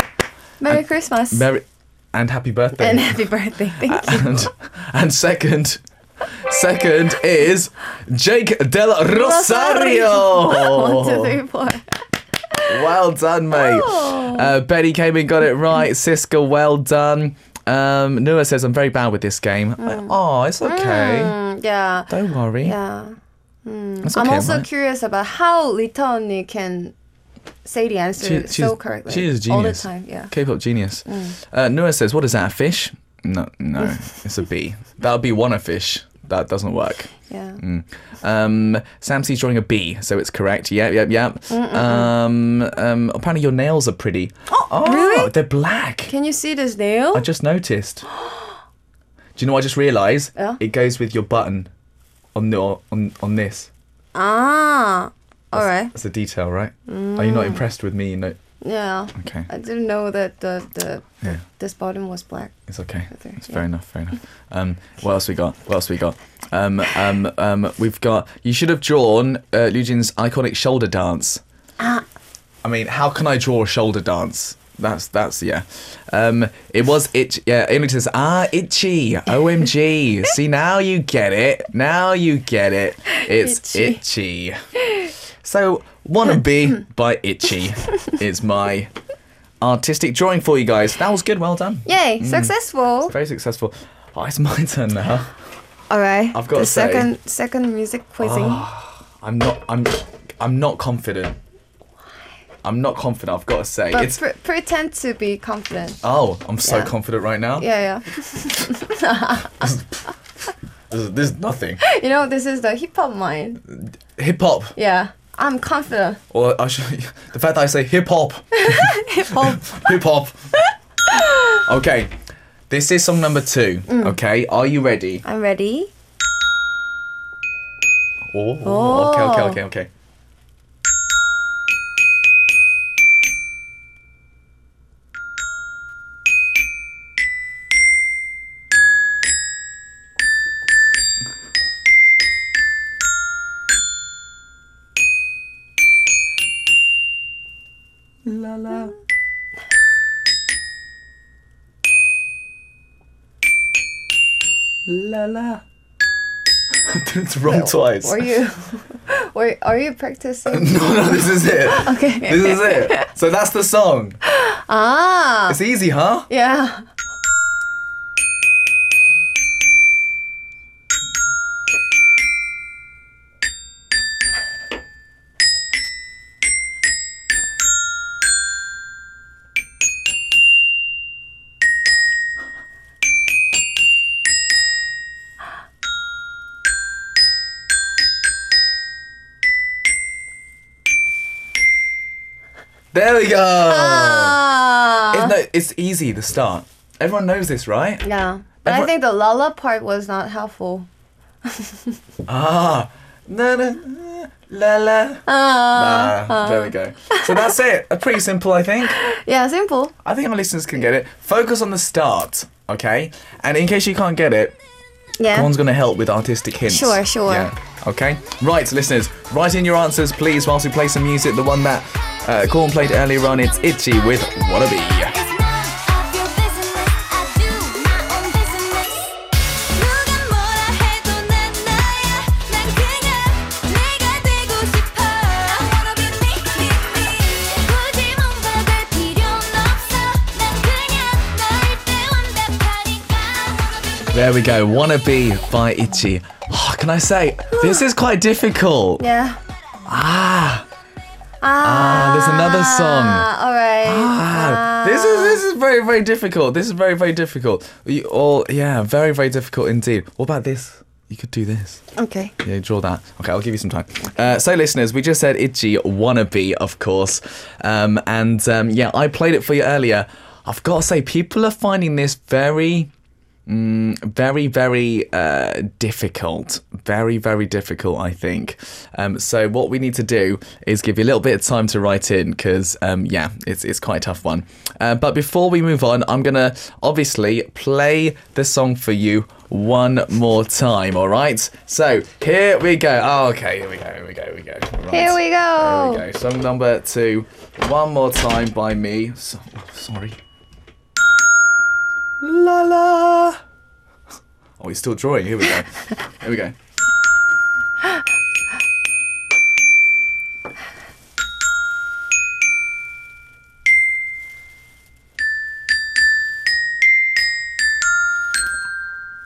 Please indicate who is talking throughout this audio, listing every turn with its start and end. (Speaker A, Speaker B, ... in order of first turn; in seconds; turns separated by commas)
Speaker A: 0.6-1.5, Speaker B: 0.7-3.2, Speaker A: 2.8-4.5, Speaker B: 3.8-11.4, Speaker A: 9.1-12.9, Speaker B: 12.6-21.4, Speaker A: 13.5-14.5, Speaker A: 19.8-22.1, Speaker B: 22.1-22.8, Speaker A: 22.6-26.9, Speaker B: 24.0-24.6, Speaker A: 27.6-30.3, Speaker B: 28.2-46.1, Speaker A: 31.1-31.4, Speaker A: 37.2-37.6, Speaker A: 41.5-42.1, Speaker A: 44.5-45.3, Speaker A: 46.1-47.2, Speaker B: 47.1-48.1, Speaker B: 49.4-51.7, Speaker B: 52.3-53.7, Speaker A: 54.1-55.9, Speaker B: 55.5-58.4, Speaker A: 56.9-57.6, Speaker A: 58.6-62.5, Speaker B: 59.1-59.5, Speaker B: 62.7-71.4, Speaker A: 63.1-63.6, Speaker A: 71.8-72.0, Speaker B: 72.6-84.6, Speaker A: 83.2-84.0, Speaker B: 85.4-88.9, Speaker B: 89.6-95.3, Speaker A: 91.8-93.1, Speaker A: 95.9-98.7, Speaker B: 96.3-97.1, Speaker B: 98.2-101.4, Speaker B: 102.6-104.2, Speaker A: 103.9-106.0, Speaker B: 106.0-107.7, Speaker A: 106.6-106.9, Speaker A: 107.6-109.7, Speaker B: 109.6-110.1, Speaker B: 110.9-111.8, Speaker A: 111.8-113.6, Speaker B: 113.7-114.7, Speaker A: 114.8-116.2, Speaker B: 116.3-120.6, Speaker A: 118.5-119.8, Speaker A: 121.1-121.6, Speaker B: 121.6-122.1, Speaker B: 122.7-125.2, Speaker A: 123.9-124.2, Speaker A: 125.2-125.9, Speaker B: 128.3-129.9, Speaker A: 128.6-129.6, Speaker B: 148.2-148.9, Speaker B: 154.8-155.6, Speaker B: 156.8-158.3, Speaker A: 157.5-163.1, Speaker B: 160.5-164.2, Speaker A: 164.2-165.6, Speaker B: 165.5-166.3, Speaker A: 166.3-166.8, Speaker B: 192.9-194.4, Speaker A: 193.6-195.3, Speaker B: 195.1-198.1, Speaker A: 198.0-200.9, Speaker B: 198.6-198.9, Speaker A: 201.4-202.0, Speaker B: 202.3-209.0, Speaker A: 205.3-207.6, Speaker A: 208.8-209.9, Speaker B: 210.0-214.6, Speaker A: 215.2-215.5, Speaker B: 215.3-225.2, Speaker A: 216.7-217.5, Speaker C: 225.1-243.9, Speaker B: 244.1-249.0, Speaker A: 247.5-247.9, Speaker A: 249.0-249.4, Speaker B: 249.9-250.7, Speaker A: 251.4-255.4, Speaker B: 251.6-253.3, Speaker B: 253.8-261.8, Speaker A: 261.9-262.3, Speaker B: 262.4-272.9, Speaker B: 273.4-300.2, Speaker A: 294.9-296.0, Speaker B: 302.2-303.4, Speaker B: 304.6-306.6